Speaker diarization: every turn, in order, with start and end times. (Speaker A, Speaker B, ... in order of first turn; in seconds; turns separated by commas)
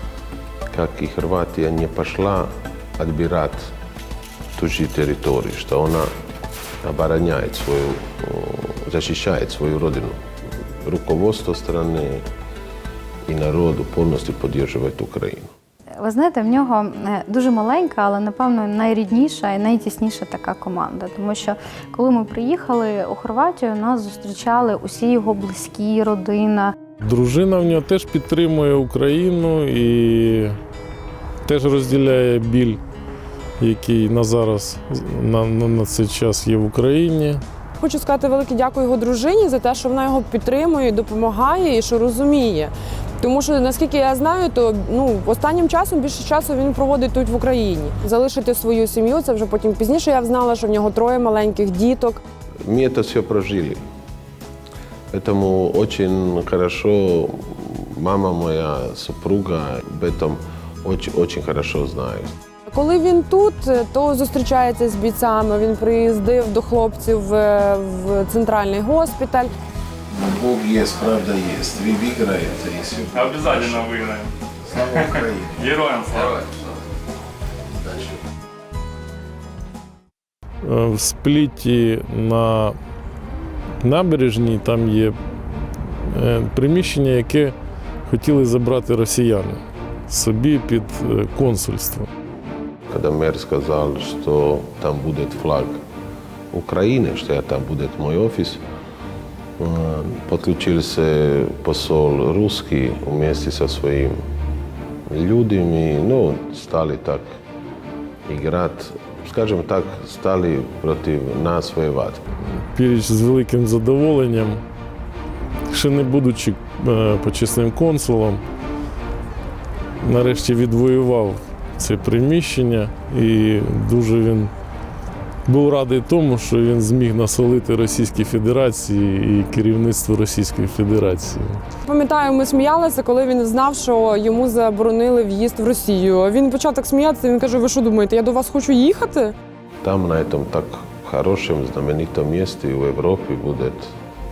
Speaker A: 0.7-3.7, Speaker A: 4.5-6.1, Speaker A: 6.8-10.2, Speaker A: 10.8-12.2, Speaker A: 13.3-15.5, Speaker B: 16.0-26.7, Speaker C: 27.0-30.6, Speaker C: 31.4-32.8, Speaker C: 33.6-37.4, Speaker D: 37.8-52.2, Speaker A: 52.6-53.8, Speaker A: 55.1-62.3, Speaker D: 62.7-69.5, Speaker A: 70.1-74.0, Speaker E: 73.1-76.5, Speaker A: 74.7-75.7, Speaker C: 80.6-82.8, Speaker C: 83.8-85.1, Speaker C: 86.1-87.5, Speaker C: 88.1-92.1, Speaker A: 92.9-95.7, Speaker A: 96.5-98.6, Speaker A: 99.6-104.2, Speaker A: 105.1-107.3, Speaker A: 108.2-112.2, Speaker C: 112.5-114.6, Speaker C: 115.7-118.4, Speaker C: 120.0-124.5, Speaker C: 125.5-131.6, Speaker D: 131.8-139.3, Speaker A: 139.8-143.9